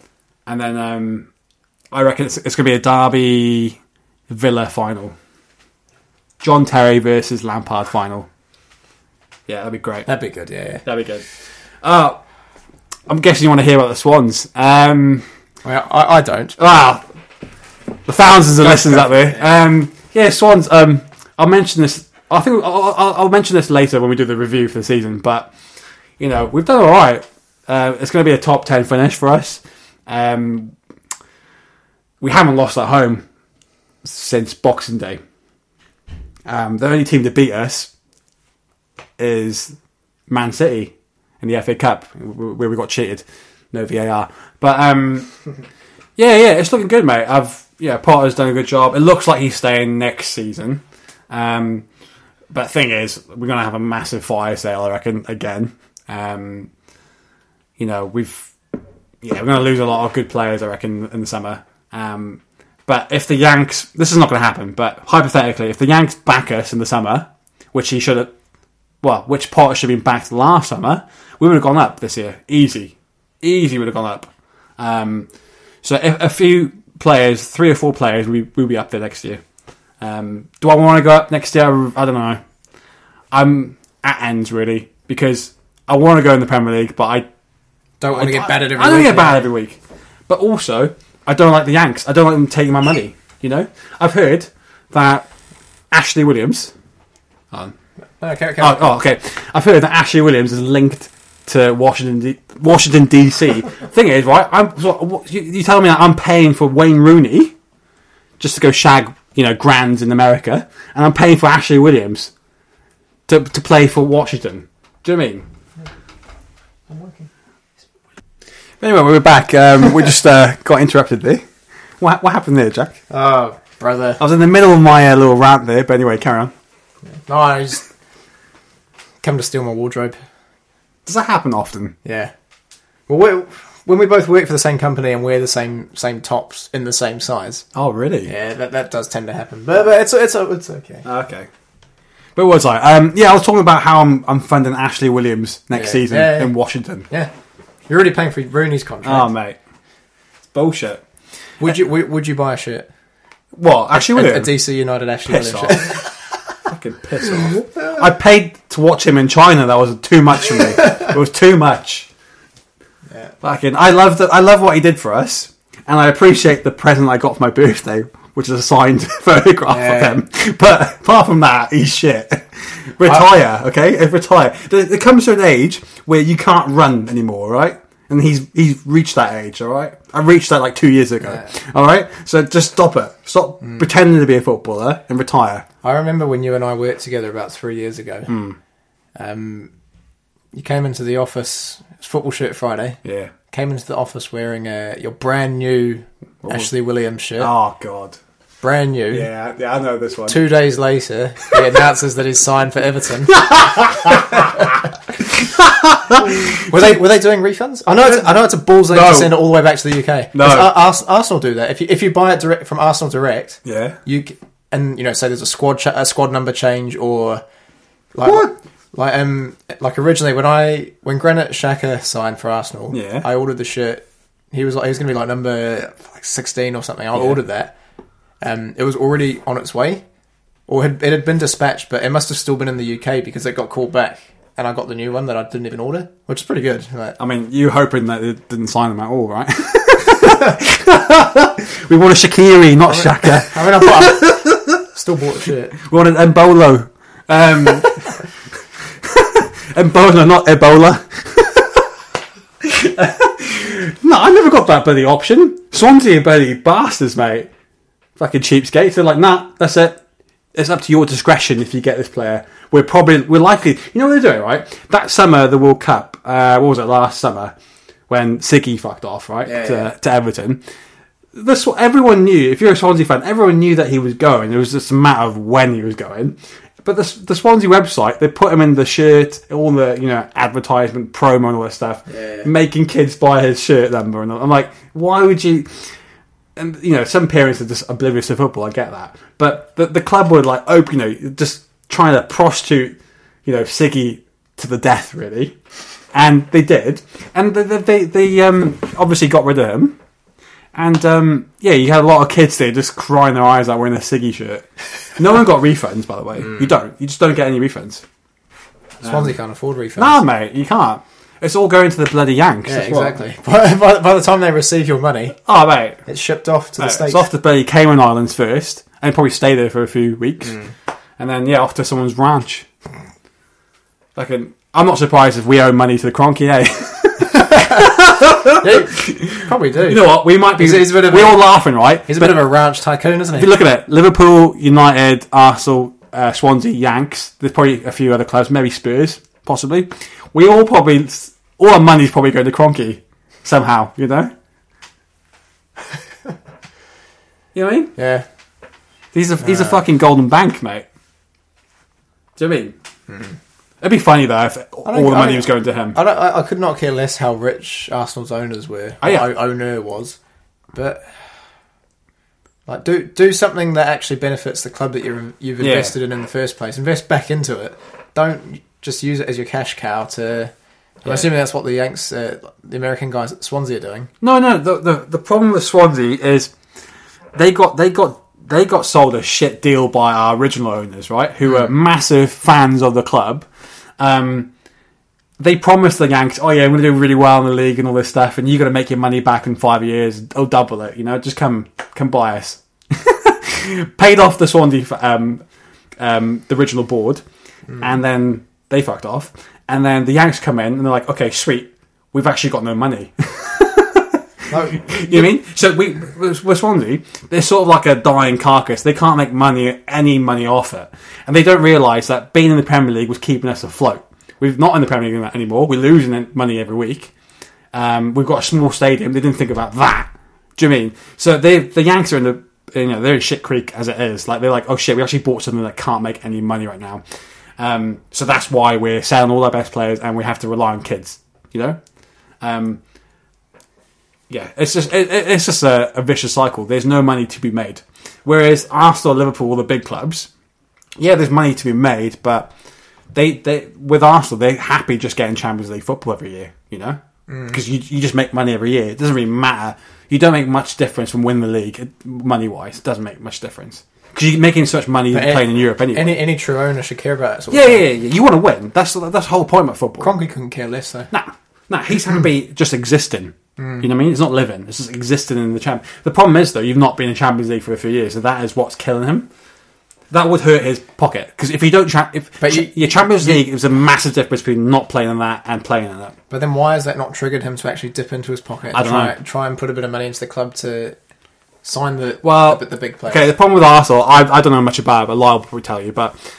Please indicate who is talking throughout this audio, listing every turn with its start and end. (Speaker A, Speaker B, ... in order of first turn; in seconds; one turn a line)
Speaker A: 0.5-1.3
Speaker A: 1.9-3.8
Speaker A: 4.3-5.1
Speaker A: 6.4-8.3
Speaker A: 9.5-10.1
Speaker B: 10.1-10.8
Speaker A: 10.8-11.2
Speaker A: 11.8-12.2
Speaker A: 13.1-15.2
Speaker B: 15.6-16.6
Speaker A: 16.6-17.0
Speaker A: 18.1-25.5
Speaker B: 18.6-19.4
Speaker A: 26.2-30.7
Speaker A: 32.2-33.2
Speaker A: 34.0-35.2
Speaker A: 36.5-37.9
Speaker A: 39.2-39.7
Speaker A: 40.3-45.3
Speaker A: 46.2-51.9
Speaker A: 52.5-56.7
Speaker A: 57.8-58.5
Speaker A: 59.2-68.3
Speaker A: 69.0-75.3
Speaker A: 75.8-79.4
Speaker A: 80.0-82.4
Speaker A: 83.3-87.3
Speaker B: 88.0-89.4
Speaker A: 88.1-95.3
Speaker A: 95.9-96.7
Speaker B: 98.2-98.8
Speaker A: 98.6-107.5
Speaker A: 108.4-112.3
Speaker A: 113.3-115.5
Speaker B: 116.9-117.3
Speaker A: 118.8-121.4
Speaker A: 122.0-123.0
Speaker B: 123.1-124.2
Speaker A: 124.2-126.5
Speaker B: 127.3-127.8
Speaker B: 129.2-130.2
Speaker A: 131.1-131.9
Speaker B: 132.0-132.3
Speaker B: 133.1-137.6
Speaker A: 137.7-138.3
Speaker B: 138.2-141.0
Speaker A: 141.0-141.5
Speaker A: 142.3-147.1
Speaker B: 145.7-146.5
Speaker B: 147.9-149.3
Speaker A: 149.0-149.6
Speaker A: 150.5-151.0
Speaker B: 151.6-152.9
Speaker A: 153.5-154.5
Speaker B: 153.9-156.0
Speaker A: 155.3-156.0
Speaker A: 156.6-162.1
Speaker A: 163.4-185.6
Speaker B: 169.7-170.2
Speaker B: 185.8-188.3
Speaker A: 188.3-188.6
Speaker B: 189.2-189.7
Speaker B: 190.5-193.0
Speaker A: 193.0-193.3
Speaker B: 193.5-197.5
Speaker A: 196.4-196.7
Speaker A: 197.4-198.2
Speaker B: 198.6-199.3
Speaker A: 199.1-200.4
Speaker B: 200.3-203.4
Speaker A: 203.3-207.0
Speaker B: 204.1-204.7
Speaker B: 206.2-217.4
Speaker A: 208.9-209.4
Speaker A: 210.3-210.7
Speaker A: 213.6-214.0
Speaker B: 218.1-227.7
Speaker A: 218.2-218.5
Speaker A: 222.9-223.2
Speaker B: 228.4-230.0
Speaker B: 230.7-237.2
Speaker A: 237.2-244.8
Speaker B: 242.8-245.8
Speaker A: 245.8-248.2
Speaker A: 249.0-251.8
Speaker A: 252.6-257.5
Speaker A: 258.2-260.0
Speaker A: 260.5-267.5
Speaker A: 268.1-270.6
Speaker B: 269.4-269.9
Speaker A: 271.3-285.8
Speaker B: 282.1-282.5
Speaker A: 286.6-295.6
Speaker A: 296.1-300.0
Speaker A: 300.7-308.0
Speaker B: 309.0-310.2
Speaker A: 309.0-309.3
Speaker A: 310.0-313.2
Speaker B: 312.6-315.4
Speaker A: 315.4-316.0
Speaker B: 316.1-317.2
Speaker A: 316.8-320.6
Speaker A: 321.2-322.7
Speaker A: 324.1-332.4
Speaker B: 327.4-327.8
Speaker B: 328.6-331.5
Speaker B: 332.1-333.5
Speaker A: 333.3-344.3
Speaker A: 347.5-347.9
Speaker B: 348.0-348.2
Speaker A: 349.1-350.9
Speaker B: 349.4-349.8
Speaker A: 352.4-352.7
Speaker A: 353.8-356.0
Speaker B: 354.8-360.2
Speaker A: 359.0-359.3
Speaker B: 360.7-361.1
Speaker B: 362.7-370.5
Speaker A: 365.6-365.9
Speaker B: 371.0-374.1
Speaker A: 374.2-376.5
Speaker A: 377.3-383.4
Speaker A: 384.0-384.5
Speaker A: 385.4-395.4
Speaker A: 396.0-397.2
Speaker A: 397.8-404.2
Speaker B: 404.5-405.3
Speaker A: 404.7-417.1
Speaker A: 417.7-427.0
Speaker A: 427.6-431.8
Speaker A: 432.4-432.8
Speaker A: 434.3-440.3
Speaker A: 441.0-442.5
Speaker A: 443.1-447.0
Speaker B: 447.3-447.6
Speaker A: 447.5-456.2
Speaker B: 455.1-457.8
Speaker A: 457.5-460.1
Speaker B: 460.0-461.1
Speaker A: 461.1-469.3
Speaker B: 463.6-463.8
Speaker A: 470.1-476.1
Speaker B: 472.4-473.4
Speaker B: 476.3-480.9
Speaker A: 478.7-479.1
Speaker B: 481.6-483.3
Speaker A: 482.2-486.1